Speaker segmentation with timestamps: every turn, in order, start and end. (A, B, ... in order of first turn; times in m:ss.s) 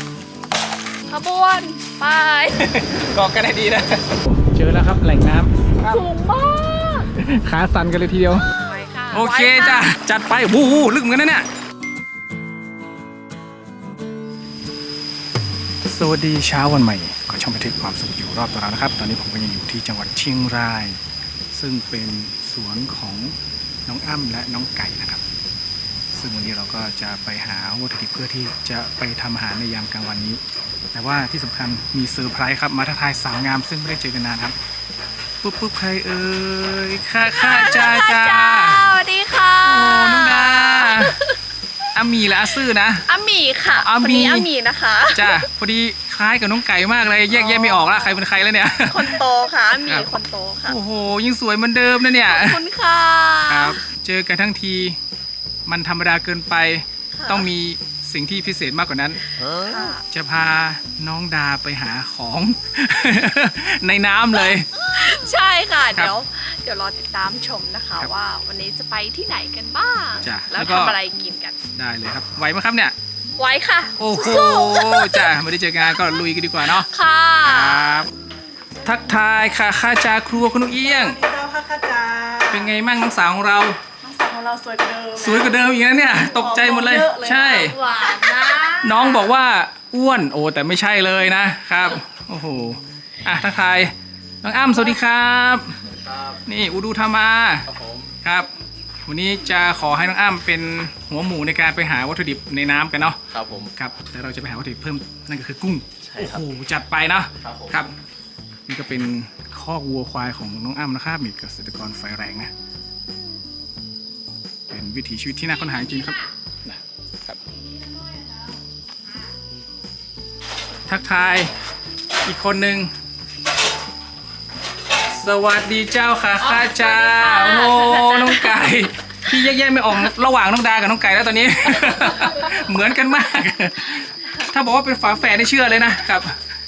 0:01.1-0:02.7 A
0:02.6-0:06.1 B
0:05.8-0:07.1 A
0:07.2-0:08.5 B
0:08.5-0:09.9 A
0:09.1-0:11.4 B
0:15.8-0:21.0 B
0:21.5-0:23.4 B
0:23.9-0:25.2 B
0:26.1-0:30.4 B
0:30.9-0:34.6 B
0:35.4-0:38.9 B
0:37.3-0:41.4 A
0:39.6-0:41.1 B
0:41.9-0:43.0 B
0:43.1-0:45.5 A
0:43.8-0:44.5 B
0:45.1-0:49.2 B
0:47.3-0:48.2 A
0:48.9-0:50.8 A
0:50.7-0:52.6 B
0:52.2-0:53.8 A
0:53.5-0:55.0 B
0:55.7-0:59.2 B
0:57.1-0:57.5 A
0:59.4-0:59.9 C
0:59.6-1:00.0 A
1:00.1-1:04.7 B
1:04.4-1:11.6 A
1:10.2-1:11.0 B
1:11.8-1:12.9 B
1:13.4-1:15.3 A
1:14.0-1:16.9 B
1:16.6-1:18.0 A
1:17.4-1:18.1 B
1:18.8-1:21.2 B
1:20.8-1:22.7 D
1:22.5-1:23.8 B
1:24.0-1:25.5 D
1:25.2-1:27.8 B
1:26.2-1:28.1 D
1:27.0-1:29.3 A
1:28.8-1:35.8 B
1:35.9-1:36.4 C
1:36.4-1:37.6 B
1:37.6-1:38.1 C
1:38.2-1:38.5 B
1:39.1-1:43.2 B
1:43.3-1:43.7 C
1:43.7-1:47.9 B
1:46.0-1:46.4 C
1:47.4-1:47.8 C
1:48.7-1:52.5 B
1:54.7-1:57.4 B
1:55.6-1:56.3 A
1:57.7-1:58.5 D
2:00.9-2:01.5 B
2:02.2-2:02.9 B
2:05.1-2:16.4 B
2:06.4-2:08.7 A
2:11.8-2:12.5 A